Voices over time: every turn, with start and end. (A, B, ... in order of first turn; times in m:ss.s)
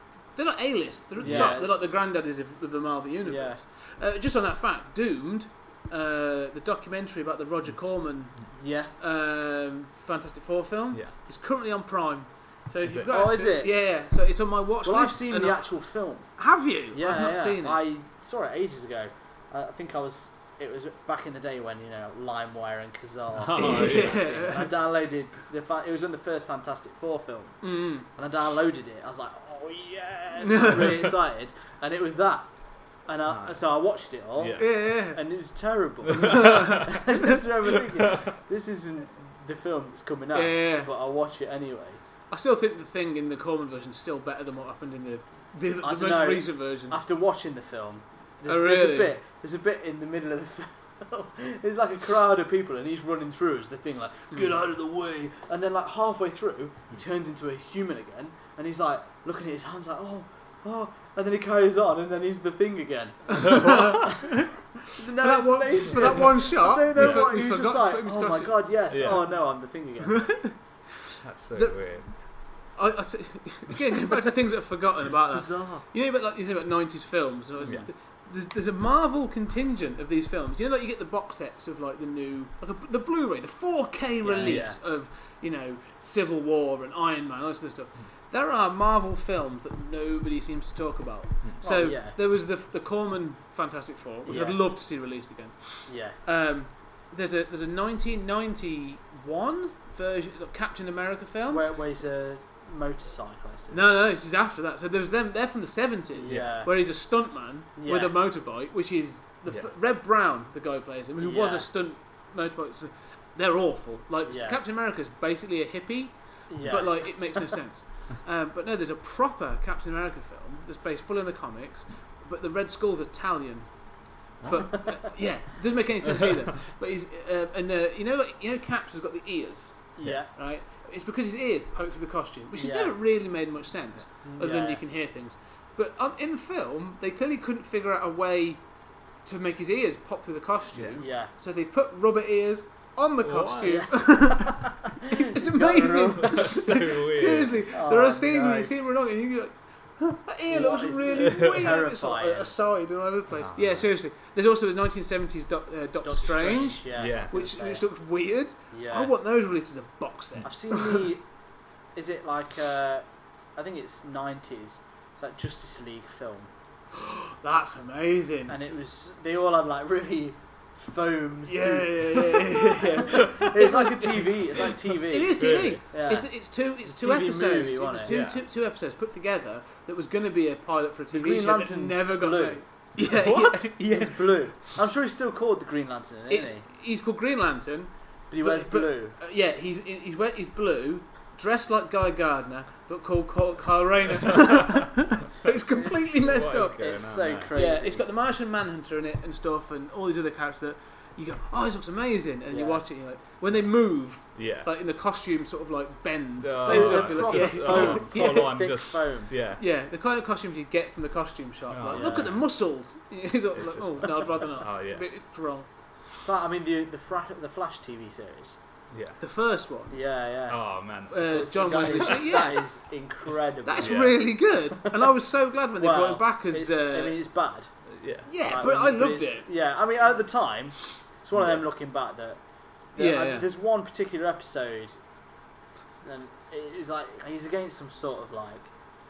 0:00.4-0:08.4 A
0:01.2-0:01.7 B
0:01.2-0:01.6 C
0:03.2-0:03.6 B
0:08.5-0:08.9 B
0:09.0-0:15.6 A
0:12.8-0:13.1 C
0:13.1-0:13.8 B
0:14.8-0:16.3 B
0:16.4-0:17.8 A
0:16.9-0:32.5 B
0:23.4-0:24.4 C
0:23.6-0:24.7 A
0:27.6-0:28.0 A
0:30.4-0:31.1 A
0:33.0-0:42.0 B
0:33.3-0:33.6 C
0:34.4-0:34.8 C
0:34.6-0:35.2 A
0:36.0-0:37.0 C
0:36.1-0:37.4 A
0:38.0-0:38.3 C
0:40.3-0:40.9 A
0:42.3-0:47.0 A
0:45.8-1:04.3 B
0:48.4-0:49.1 A
1:03.3-1:04.5 A
1:03.4-1:04.0 C
1:04.8-1:10.4 B
1:05.1-1:09.2 A
1:06.9-1:07.3 C
1:08.9-1:09.2 C
1:10.1-1:10.5 A
1:11.2-1:12.1 C
1:12.8-1:41.6 A
1:15.3-1:15.9 B
1:17.6-1:17.9 C
1:24.2-1:24.8 B
1:24.4-1:24.7 C
1:31.6-1:32.2 B
1:34.2-1:34.6 B
1:35.9-1:36.2 B
1:41.5-1:43.9 B
1:43.7-2:03.7 A
1:46.2-1:46.7 B
1:46.3-1:46.5 C
1:47.8-1:48.1 B
1:51.2-1:51.7 B
1:54.2-1:54.6 B
1:56.5-1:57.4 B
2:04.4-2:18.6 A
2:04.6-2:05.1 B
2:10.0-2:10.3 B
2:12.6-2:12.9 B
2:14.2-2:14.8 B
2:19.2-2:41.1 A
2:20.7-2:21.0 C
2:21.0-2:21.3 B
2:23.2-2:23.9 C
2:23.6-2:26.6 B
2:26.1-2:27.6 C
2:27.7-2:28.7 B
2:30.5-2:32.5 B
2:31.4-2:31.7 C
2:33.3-2:33.9 C
2:36.0-2:37.8 B
2:36.9-2:37.3 C
2:38.7-2:39.1 B
2:40.4-2:41.2 B
2:41.9-2:43.0 B
2:43.6-2:46.5 B
2:46.9-2:48.6 A
2:48.5-2:56.3 B
2:51.4-3:04.8 A
2:53.1-2:53.5 C
2:55.4-2:55.8 C
2:56.8-2:58.2 B
2:58.0-2:58.4 C
3:01.1-3:02.6 B
3:03.0-3:03.6 C
3:03.5-3:06.6 B
3:06.3-3:16.8 A
3:08.3-3:09.2 B
3:14.2-3:14.9 C
3:15.1-3:18.1 B
3:16.1-3:17.5 C
3:17.5-3:28.5 A
3:22.5-3:22.8 B
3:24.3-3:24.7 C
3:26.4-3:29.6 C
3:26.6-3:29.3 B
3:29.6-3:35.7 A
3:31.7-3:32.4 C
3:31.9-3:32.4 B
3:33.5-3:35.0 C
3:36.2-3:38.6 B
3:38.9-3:39.2 C
3:39.2-3:40.0 A
3:39.9-3:40.6 B
3:40.5-3:42.1 C
3:41.1-3:42.7 A
3:41.2-3:44.2 B
3:43.6-3:47.2 A
3:43.8-3:44.2 C
3:45.8-3:47.7 B
3:47.9-3:48.3 C
3:48.3-3:49.5 A
3:48.4-3:52.4 B
3:51.3-3:51.6 C
3:52.9-3:55.0 B
3:53.0-3:53.5 A
3:56.0-3:58.7 B